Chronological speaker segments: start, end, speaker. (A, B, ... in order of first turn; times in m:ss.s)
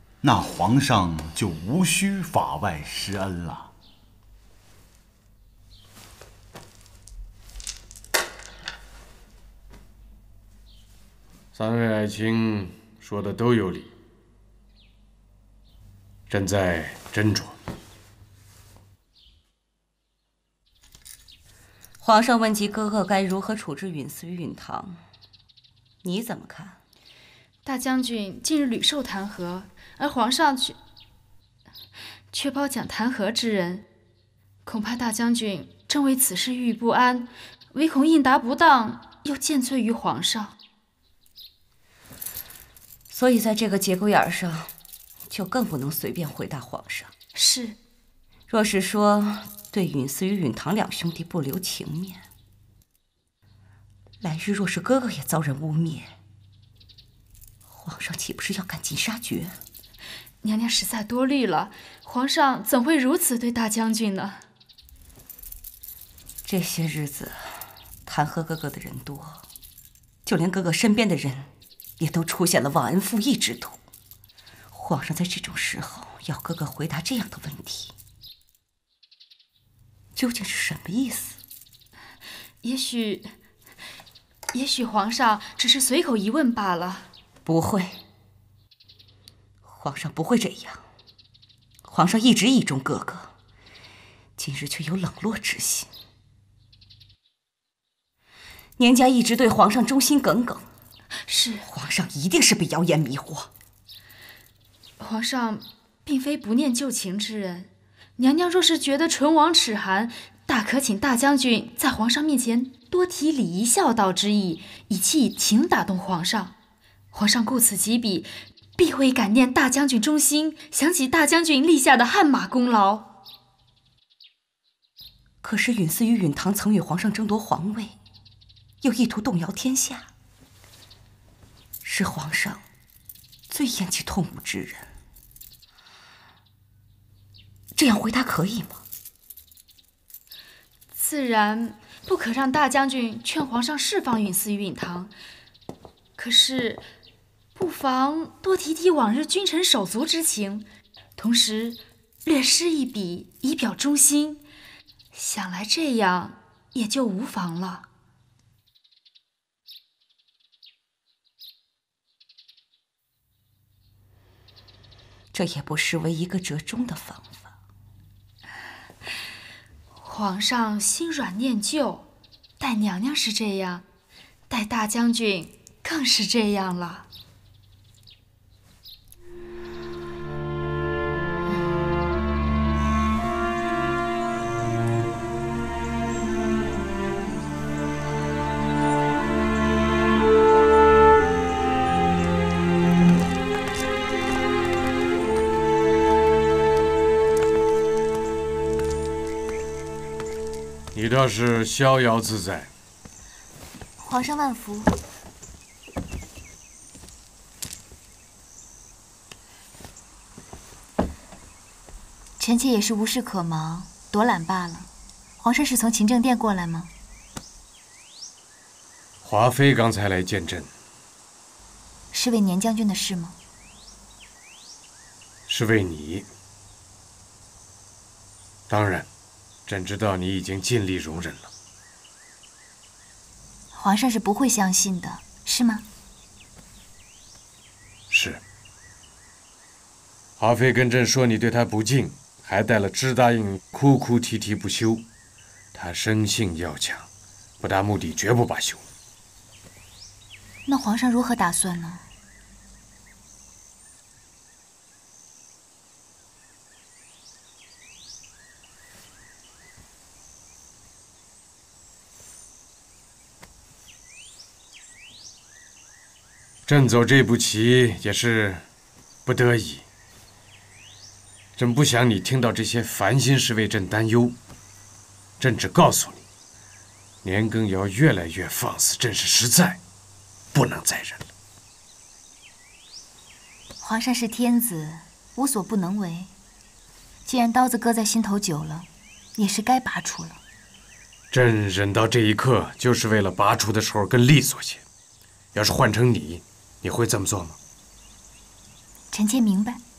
0:00.2-0:03.7 A
0:11.5-0:13.9 B
0:16.3-0:17.5 B
0:22.0-0:25.0 C
0:26.0-0:26.8 C
0:27.6-0:30.8 D
0:32.3-0:33.8 D
0:34.6-0:40.5 D
0:43.1-0:44.7 C
0:45.3-0:47.1 C
0:47.3-0:47.8 D
0:48.5-0:52.2 C
0:54.2-0:56.1 C
0:57.7-0:59.6 C
1:00.4-1:04.4 D
1:06.4-1:07.4 C
1:08.1-1:09.4 C
1:10.2-1:13.8 C
1:14.7-1:17.9 C
1:20.1-1:21.4 C
1:22.6-1:23.3 D
1:24.5-1:27.1 D
1:27.4-1:28.0 C
1:29.6-1:30.8 C
1:31.8-1:33.3 C
1:34.4-1:35.9 C
1:38.8-1:40.6 C
1:41.3-1:41.6 D
1:41.6-1:43.5 C
1:45.0-1:56.5 D
1:57.1-2:03.1 D
2:05.4-2:07.9 C
2:08.8-2:10.1 C
2:11.8-2:12.6 C
2:13.5-2:14.9 C
2:17.8-2:18.8 C
2:20.9-2:25.1 D
2:26.2-2:26.8 D
2:27.5-2:34.4 D
2:35.1-2:37.8 D
2:45.3-2:47.5 C
2:50.0-2:52.1 D
2:52.6-2:53.8 D
2:54.5-2:57.1 D
3:20.9-3:22.7 B
3:24.0-3:24.9 E
3:32.4-3:34.9 E
3:35.4-3:36.9 E
3:39.2-3:40.7 B
3:42.1-3:43.4 E
3:45.5-3:46.3 B
3:48.7-3:49.1 B
3:49.7-3:51.5 B
3:53.7-3:55.8 E
3:58.1-3:58.4 B
4:00.4-4:05.0 B
4:05.7-4:07.1 B
4:07.6-4:08.8 B
4:10.6-4:12.0 E
4:26.6-4:28.6 B
4:29.2-4:29.8 B
4:31.6-4:34.4 B
4:35.4-4:36.2 B
4:37.2-4:39.8 B
4:40.5-4:41.2 B
4:43.8-4:46.3 E
4:47.2-4:50.4 E
4:51.3-4:54.8 B
4:55.5-4:57.6 B
4:59.1-4:59.8 E